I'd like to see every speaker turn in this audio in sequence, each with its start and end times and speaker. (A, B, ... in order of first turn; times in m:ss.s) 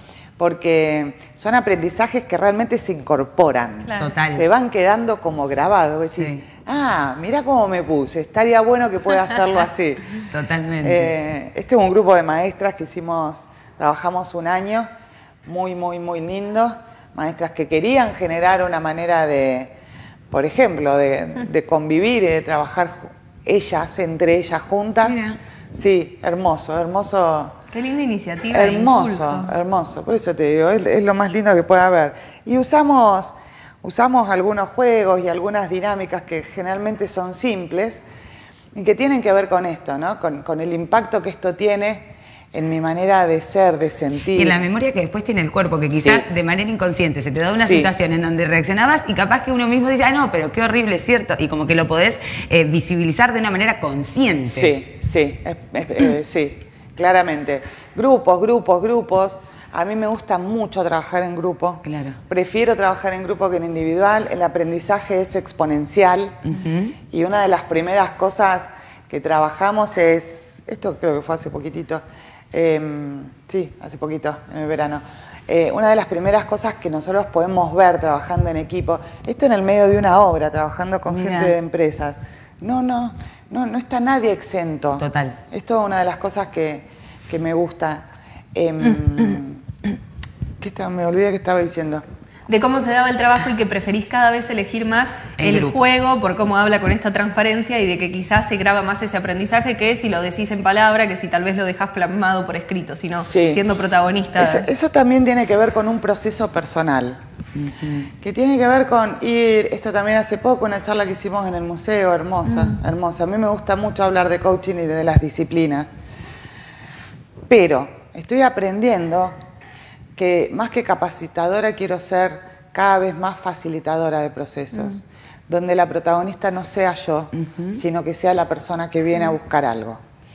0:00.4-0:10.3 A
0:04.0-0:04.4 B
0:06.2-0:06.4 B
0:10.2-0:11.1 B
0:10.8-0:14.9 A
0:15.4-0:19.7 A
0:20.3-0:27.6 A
0:25.0-0:25.4 B
0:27.7-0:29.5 C
0:28.5-0:38.0 A
0:38.7-0:44.6 A
0:44.3-0:54.7 B
0:45.9-0:46.2 A
0:47.6-0:47.9 A
0:54.5-1:06.5 A
1:01.8-1:02.2 B
1:06.5-1:06.9 B
1:07.0-1:29.6 A
1:21.1-1:21.5 B
1:25.0-1:25.4 B
1:30.6-1:32.0 A
1:32.5-1:44.7 C
1:35.4-1:35.8 B
1:43.2-1:43.6 A
1:44.4-1:47.2 A
1:47.6-1:48.1 B
1:48.1-1:55.9 A
1:57.5-1:59.3 A
2:00.2-2:10.0 A
2:07.4-2:07.8 B